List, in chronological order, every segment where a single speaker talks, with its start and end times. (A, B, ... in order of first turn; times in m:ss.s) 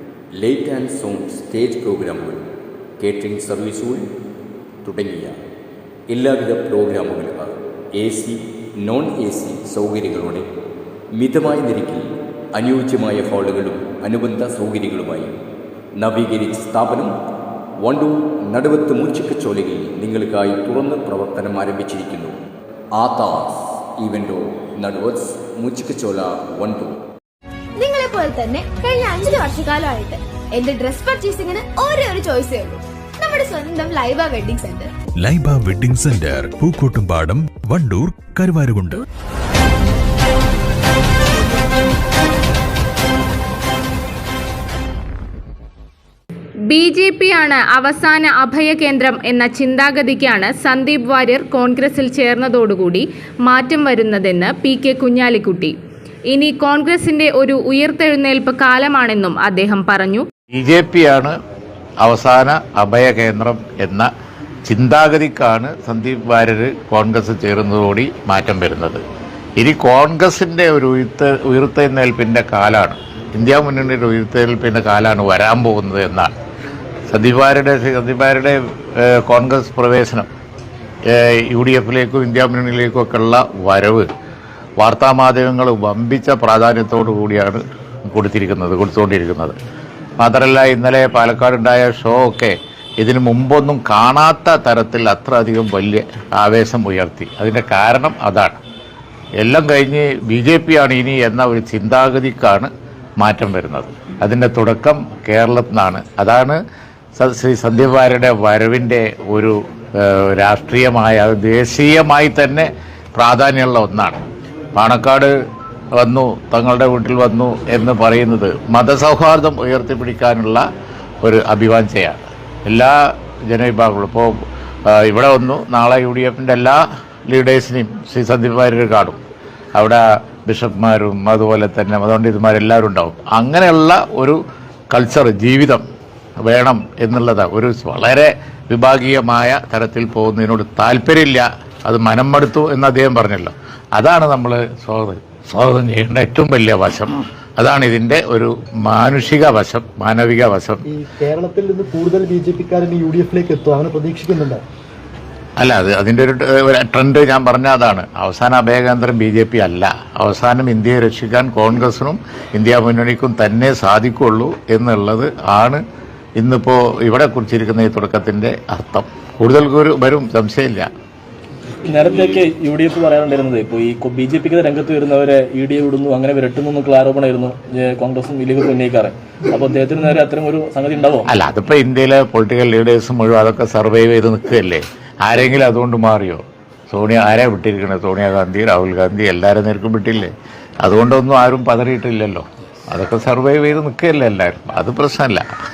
0:00.3-0:04.1 A
0:04.8-0:05.4 A
0:06.1-0:10.5 A
0:11.1-0:15.4 A
0:16.0-0:17.2 A
0:17.8-0:22.4 A
0:23.0-0:27.0 A
0:27.8-0:34.9 B
0:35.2-0:39.0 C
0:46.7-0:55.8 D
0:56.3-1:00.3 D
1:00.5-1:01.4 E
1:02.0-1:04.1 E
1:04.7-1:09.0 E
1:09.6-1:16.3 E
1:17.1-1:20.3 E
1:21.1-1:24.1 E
1:24.8-1:29.6 E
1:30.2-1:38.6 E
1:39.4-1:46.6 E
1:47.2-1:54.2 E
1:54.8-1:55.3 E
1:56.0-2:00.6 E
2:01.2-2:04.4 E
2:04.9-2:09.2 E
2:09.8-2:14.4 E
2:14.9-2:15.8 E
2:16.4-2:30.8 E
2:30.9-2:34.6 F
2:35.6-2:45.8 E
2:46.4-2:50.9 E
2:51.8-3:01.3 G
3:01.3-3:15.5 E